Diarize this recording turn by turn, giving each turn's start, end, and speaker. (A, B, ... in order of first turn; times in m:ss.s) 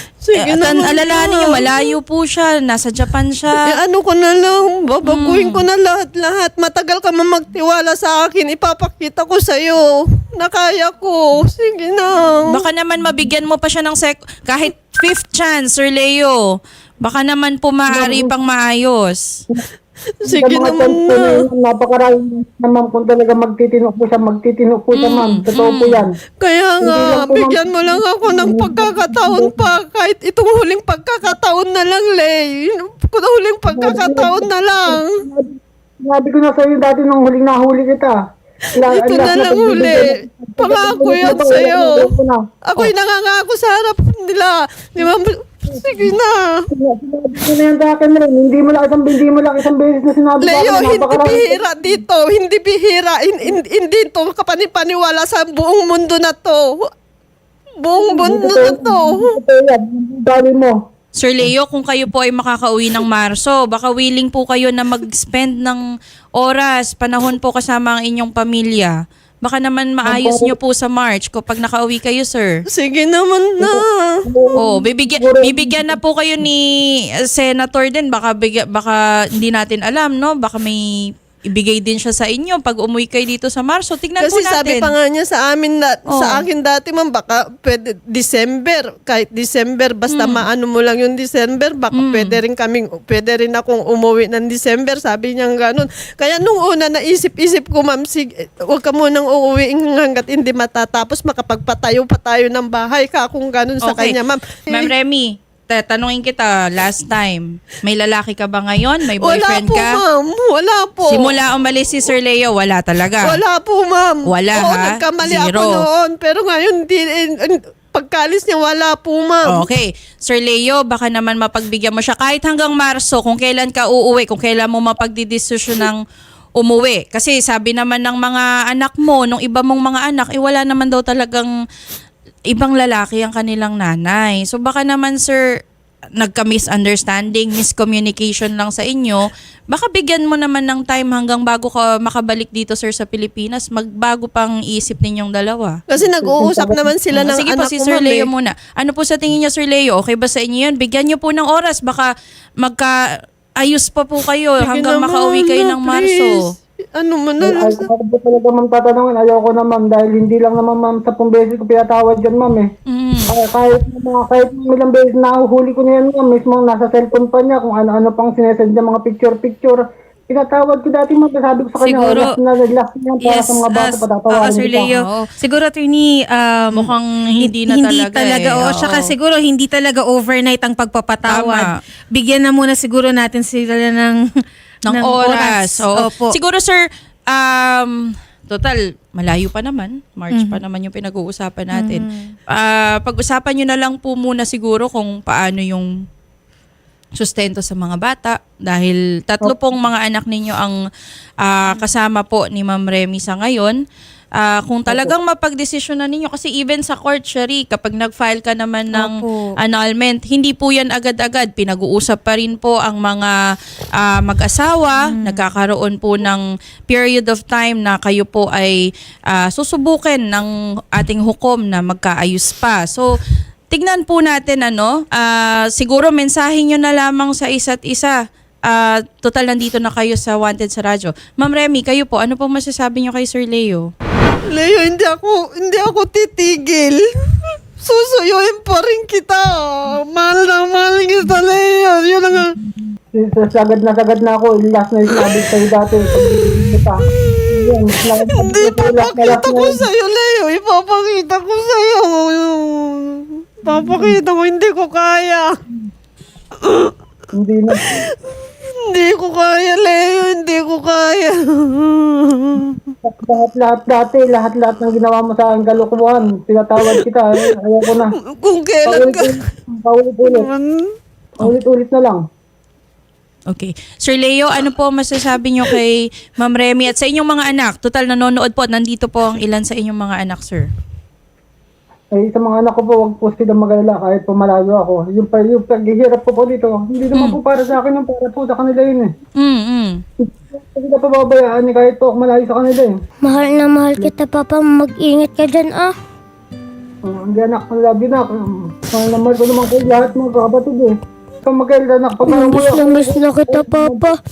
0:00.2-0:01.9 A
0:00.4-0:03.6 B
0:03.5-0:12.6 A
0:05.0-0:05.6 B
0:12.5-0:16.4 B
0:17.0-0:19.4 B
0:17.9-0:18.3 C
0:20.2-0:21.4 A
0:20.3-0:26.1 C
0:25.0-0:26.0 B
0:26.4-0:35.1 A
0:26.8-0:29.7 C
0:33.7-0:38.2 C
0:38.8-0:42.4 C
0:38.8-0:42.1 A
0:42.7-0:46.6 A
0:46.7-0:52.0 C
0:50.4-0:56.7 A
0:57.8-0:59.3 A
0:58.0-1:00.8 C
1:01.2-1:05.8 B
1:06.4-1:12.6 B
1:10.0-1:10.6 C
1:12.7-1:14.2 A
1:13.6-1:16.0 C
1:14.6-1:16.6 B
1:17.2-1:20.8 B
1:21.5-1:24.9 B
1:24.2-1:44.9 A
1:26.1-1:26.4 B
1:30.1-1:30.4 B
1:31.9-1:32.4 B
1:43.8-1:44.1 B
1:44.7-1:50.0 B
1:49.2-1:51.4 A
1:51.1-1:53.4 B
1:53.2-1:59.7 A
1:54.3-1:55.8 B
1:59.5-2:06.0 B
2:06.6-2:11.5 B
2:12.5-2:15.4 B
2:16.2-2:25.8 B
2:25.9-2:28.3 A
2:26.0-2:26.9 C
2:27.1-2:32.1 B
2:32.6-2:33.0 B
2:33.6-2:36.4 B
2:34.6-2:37.8 A
2:37.4-2:42.7 C
2:42.9-2:43.3 B
2:43.3-2:54.9 C
2:51.8-2:52.3 D
2:53.2-3:04.2 D
2:54.9-2:55.3 B
2:56.8-2:59.1 B
3:01.3-3:01.7 B
3:04.9-3:06.4 D
3:04.9-3:15.9 B
3:10.3-3:10.6 D
3:11.7-3:12.3 D
3:17.2-3:20.8 B
3:21.4-3:23.8 B
3:24.4-3:33.3 B
3:28.9-3:29.6 D
3:34.0-3:38.8 B
3:35.1-3:35.4 D
3:39.3-3:43.1 B
3:43.7-3:53.9 B
3:54.5-4:02.5 A
4:02.4-4:07.0 C
4:05.1-4:06.6 A
4:07.3-4:15.5 A
4:07.5-4:09.8 C
4:13.7-4:14.2 C
4:16.6-4:16.9 A
4:17.4-4:18.0 C
4:17.8-4:18.1 A
4:18.7-4:22.9 A
4:23.0-4:28.1 C
4:27.9-4:29.3 A
4:28.9-4:30.5 C
4:30.2-4:31.0 A
4:31.4-4:32.2 C
4:33.5-4:40.7 B
4:42.2-4:49.1 C
4:49.4-4:50.0 B
4:50.2-4:52.9 C
4:53.2-4:55.9 E
4:57.0-5:01.0 C
5:01.5-5:04.1 C
5:02.2-5:04.2 E